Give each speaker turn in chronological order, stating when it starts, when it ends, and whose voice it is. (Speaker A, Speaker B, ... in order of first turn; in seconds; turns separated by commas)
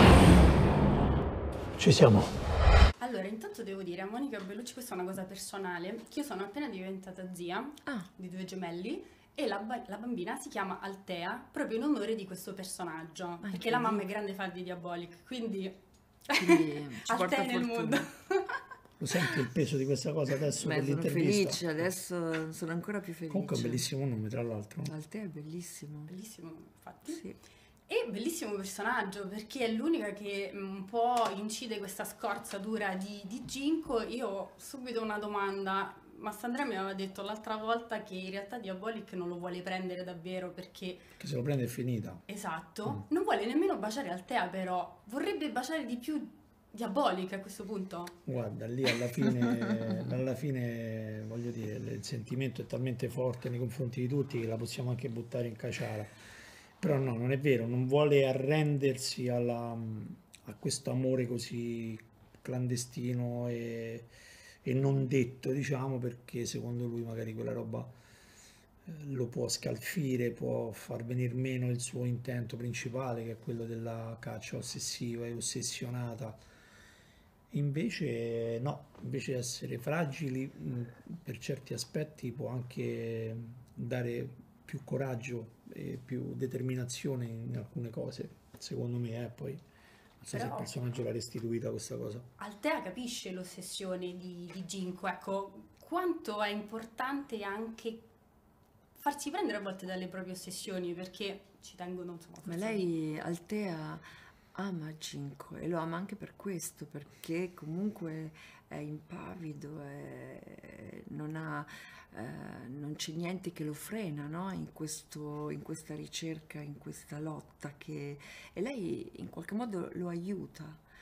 Speaker A: 1.8-2.3, Speaker B: 3.0-15.8, Speaker C: 13.4-14.1, Speaker B: 16.3-18.6, Speaker C: 16.4-18.1, Speaker A: 19.0-21.9, Speaker C: 20.6-23.9, Speaker A: 23.3-24.9, Speaker C: 24.9-26.1, Speaker B: 26.1-27.2, Speaker C: 27.1-27.4, Speaker B: 27.9-41.1, Speaker A: 41.2-42.2, Speaker B: 42.3-48.2, Speaker A: 48.2-56.2, Speaker A: 56.8-64.1, Speaker A: 64.6-67.9, Speaker A: 68.8-76.4, Speaker A: 77.5-89.6, Speaker A: 90.2-92.3, Speaker B: 90.3-90.7, Speaker B: 92.4-98.0, Speaker B: 99.0-102.9, Speaker C: 102.4-120.8